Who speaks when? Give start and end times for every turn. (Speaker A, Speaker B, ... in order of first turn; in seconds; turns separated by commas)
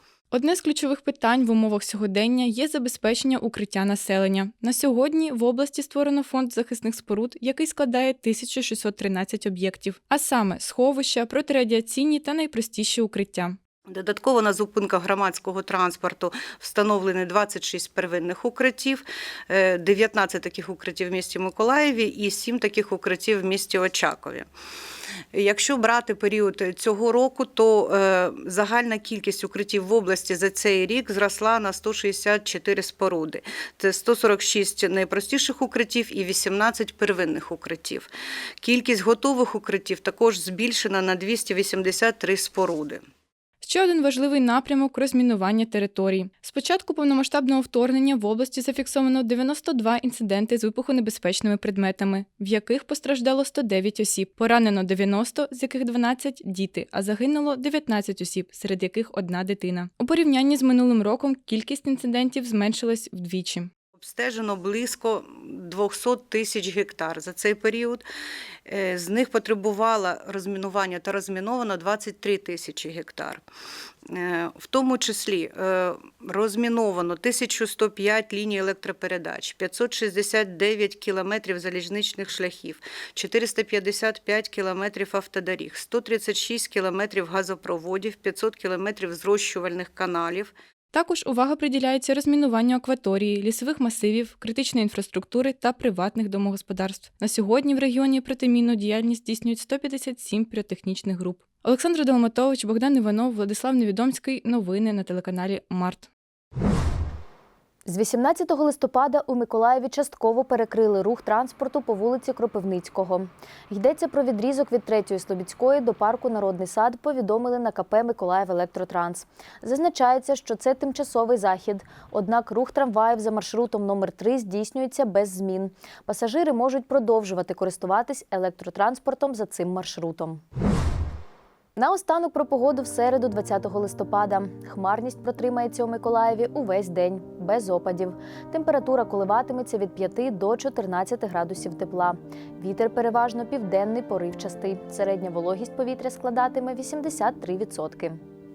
Speaker A: 0.3-13.6, Speaker B: 13.9-24.5, Speaker B: 25.3-38.1, Speaker B: 38.6-43.0, Speaker A: 43.6-63.7, Speaker B: 64.0-68.0, Speaker B: 68.7-73.4, Speaker B: 74.1-90.5, Speaker A: 90.9-106.1, Speaker C: 107.8-130.4, Speaker C: 131.8-148.2